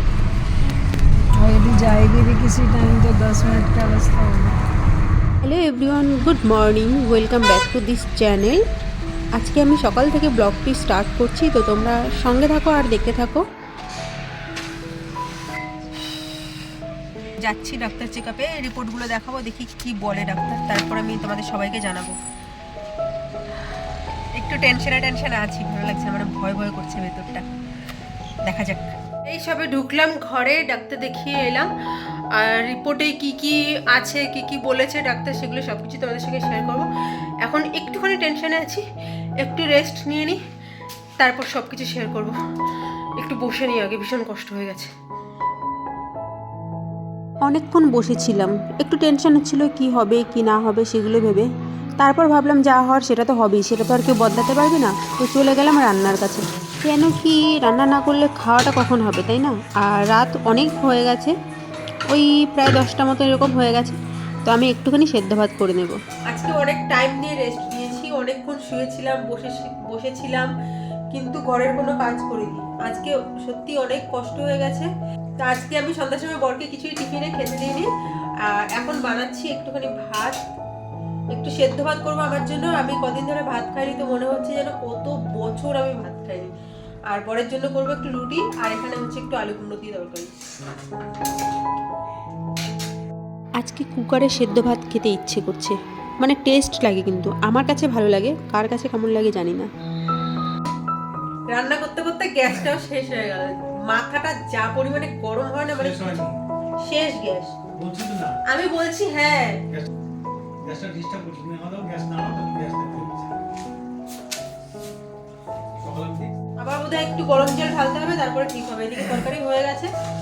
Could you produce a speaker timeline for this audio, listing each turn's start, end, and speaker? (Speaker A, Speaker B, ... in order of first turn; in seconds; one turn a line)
Speaker A: 1.4-4.6
Speaker B: 5.4-8.6
Speaker B: 9.3-13.4
Speaker B: 17.4-22.2
Speaker B: 24.4-27.4
Speaker B: 28.4-36.9
Speaker B: 37.4-38.8
Speaker B: 39.4-40.4
Speaker B: 41.2-42.4
Speaker B: 43.2-44.9
Speaker B: 47.5-51.5
Speaker B: 52.0-61.3
Speaker B: 62.1-64.0
Speaker B: 64.5-70.5
Speaker B: 71.1-74.9
Speaker B: 75.4-77.9
Speaker B: 78.5-80.4
Speaker B: 81.3-86.5
Speaker B: 87.1-90.3
Speaker B: 93.6-99.7
Speaker B: 101.5-106.3
Speaker C: 105.7-106.4
Speaker B: 106.8-107.6
Speaker C: 107.8-108.4
Speaker B: 108.5-109.6
Speaker C: 110.6-113.2
Speaker C: 115.8-116.3
Speaker B: 116.6-119.9